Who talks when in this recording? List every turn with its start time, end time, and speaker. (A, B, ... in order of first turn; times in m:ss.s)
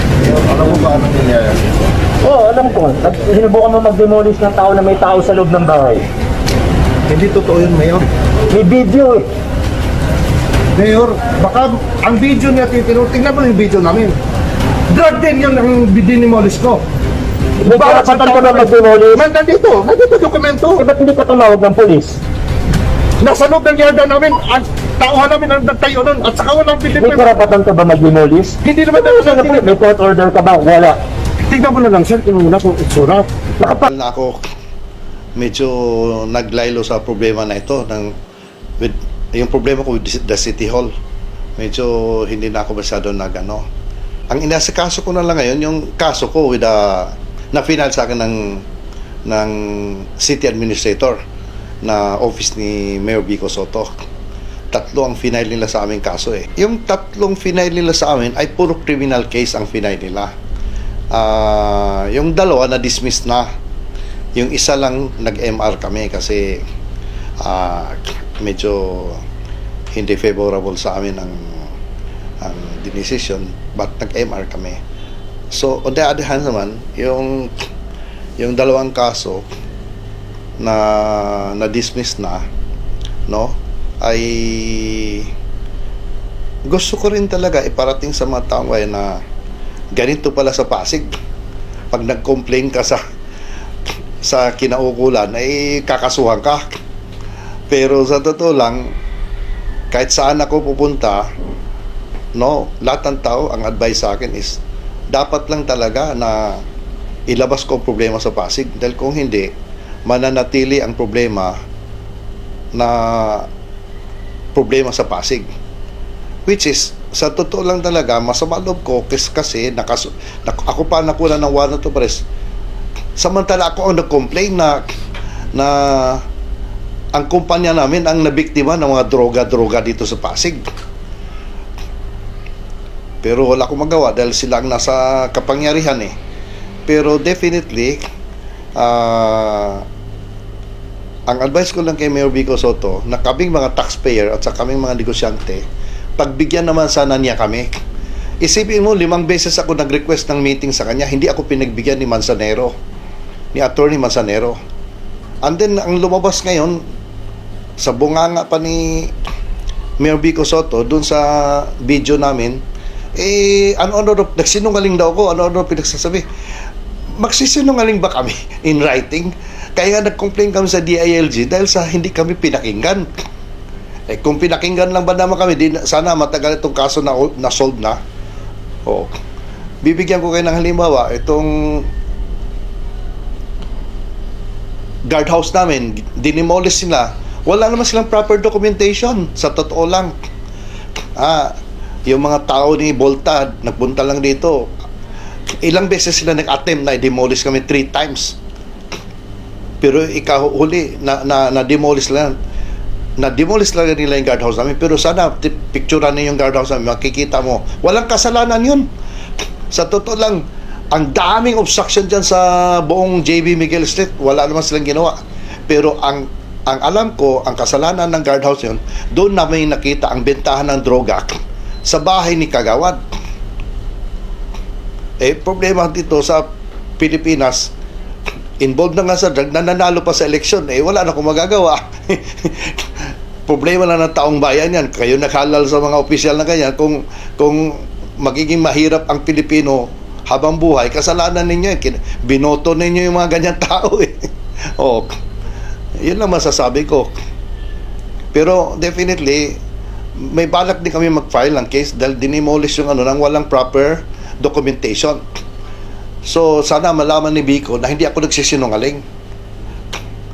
0:00.6-0:01.5 A
0:00.6-0:01.3 B
0:02.2-0:06.0 C
0:07.1-0:08.0 B
0:07.3-0:07.7 A
0:08.5-0:09.3 C
0:10.8-0:14.1 B
0:14.9-0:16.8 B
0:17.6-0:19.3 C
0:17.8-0:18.6 B
0:19.2-0:20.8 B
0:20.8-0:22.2 C
0:23.2-0:27.2 B
0:27.0-0:31.0 C
0:28.6-0:29.5 B
0:31.5-0:33.2 B
0:33.8-0:34.4 A
0:35.4-0:38.1 A
0:38.8-0:40.9 A
0:41.6-0:43.6 A
0:44.3-0:48.6 A
0:49.3-0:51.2 A
0:51.8-0:53.9 A
0:54.7-1:00.3 A
1:01.1-1:03.5 A
1:04.4-1:06.6 A
1:07.4-1:09.2 A
1:09.9-1:11.7 A
1:12.4-1:14.8 A
1:15.5-1:17.5 A
1:18.4-1:19.4 A
1:20.6-1:22.4 A
1:23.3-1:25.3 A
1:26.7-1:29.2 A
1:29.9-1:31.1 A
1:31.9-1:33.0 A
1:34.2-1:36.7 A
1:37.7-1:38.9 A
1:39.9-1:41.2 A
1:42.4-1:44.6 A
1:45.1-1:46.6 A
1:47.3-1:49.5 A
1:50.1-1:51.5 A
1:52.7-1:53.5 A
1:54.5-1:55.5 A
1:56.5-2:02.2 A
2:03.2-2:04.8 A
2:05.5-2:06.2 A
2:07.1-2:10.6 A
2:13.2-2:16.1 A
2:16.9-2:18.0 A
2:18.8-2:19.8 A
2:21.3-2:25.6 A
2:26.2-2:27.7 A
2:28.4-2:32.7 A
2:33.5-2:34.5 A
2:35.4-2:36.8 A
2:37.8-2:39.1 A
2:40.0-2:42.6 A
2:43.2-2:46.2 A
2:47.2-2:53.0 A
2:54.1-2:58.0 A
2:58.8-2:59.2 A
2:59.8-3:01.9 A
3:05.1-3:10.1 A
3:11.2-3:11.5 A
3:12.1-3:14.7 A
3:15.6-3:18.4 A
3:19.8-3:22.3 A
3:23.2-3:28.9 A
3:29.7-3:35.2 A
3:35.7-3:43.0 A
3:45.2-3:46.5 A
3:47.0-3:47.7 A
3:48.6-4:05.1 A
4:06.0-4:07.1 A
4:08.3-4:09.6 A
4:10.2-4:15.2 A
4:16.2-4:19.0 A